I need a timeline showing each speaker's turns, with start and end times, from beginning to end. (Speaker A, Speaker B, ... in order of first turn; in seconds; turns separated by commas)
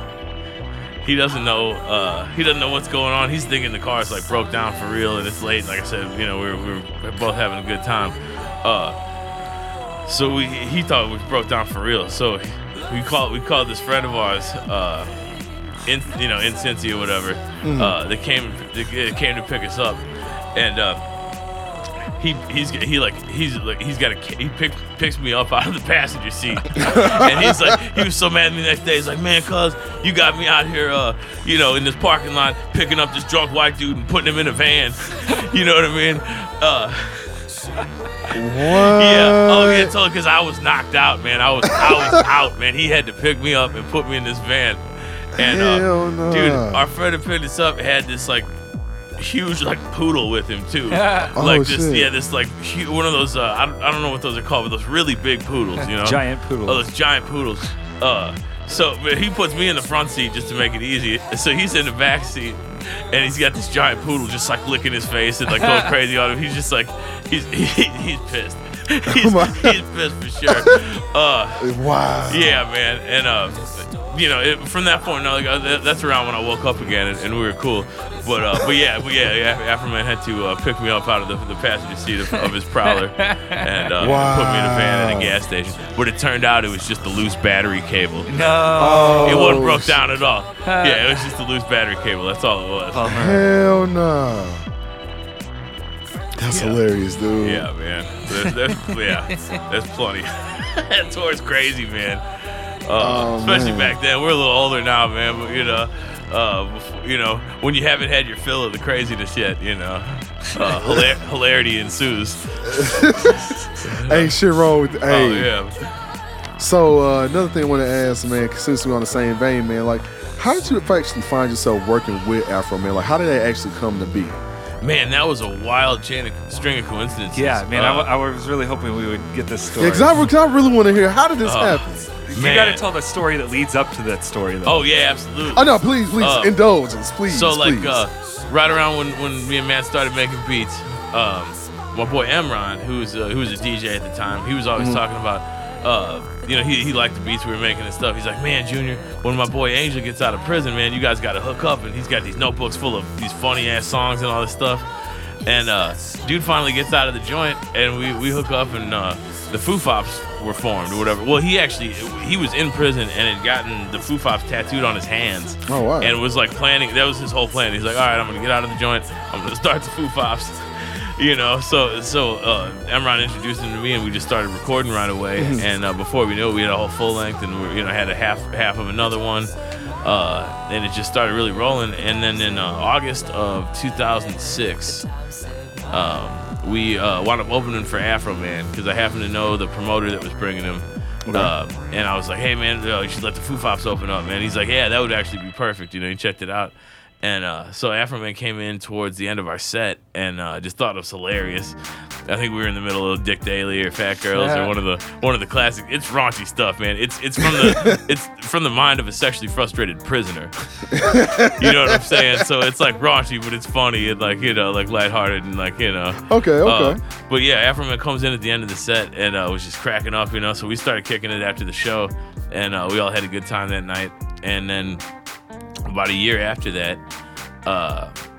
Speaker A: 1.0-9.0, Speaker A: 10.1-15.2, Speaker A: 15.8-20.0, Speaker B: 17.6-17.9, Speaker A: 20.5-21.0, Speaker A: 22.2-37.5, Speaker B: 26.7-27.8, Speaker A: 38.2-48.5, Speaker B: 38.3-39.9, Speaker B: 41.6-42.2, Speaker B: 45.4-46.9, Speaker A: 49.2-71.7, Speaker C: 50.9-51.4, Speaker B: 51.4-52.1, Speaker C: 55.9-56.9, Speaker C: 65.5-65.9, Speaker B: 69.1-69.8, Speaker B: 70.5-70.8, Speaker B: 71.6-72.6, Speaker A: 72.2-88.3, Speaker C: 82.3-83.9, Speaker B: 84.0-85.3, Speaker C: 88.2-89.5, Speaker B: 88.7-90.0, Speaker A: 89.2-93.1, Speaker C: 90.6-91.3, Speaker C: 92.9-93.5, Speaker B: 93.1-94.6, Speaker B: 96.4-97.7, Speaker A: 96.5-96.8, Speaker A: 97.4-113.1, Speaker C: 98.4-99.6, Speaker B: 103.0-104.0, Speaker B: 110.7-111.1, Speaker B: 112.7-115.5, Speaker A: 113.8-114.3, Speaker A: 115.1-116.0, Speaker B: 116.6-124.4, Speaker A: 124.8-128.1, Speaker C: 127.3-130.2, Speaker B: 129.7-132.1, Speaker A: 131.4-132.8, Speaker C: 132.3-134.8, Speaker A: 134.6-136.6, Speaker B: 135.5-138.0, Speaker A: 137.3-154.9, Speaker B: 144.8-145.0, Speaker A: 155.4-185.1, Speaker B: 165.7-166.2, Speaker B: 175.4-175.6, Speaker A: 185.9-201.8, Speaker B: 191.2-191.5, Speaker A: 202.3-225.0, Speaker C: 204.3-204.7, Speaker B: 207.4-208.0, Speaker B: 210.9-212.2, Speaker B: 216.3-217.0, Speaker A: 225.9-227.0, Speaker A: 227.6-228.1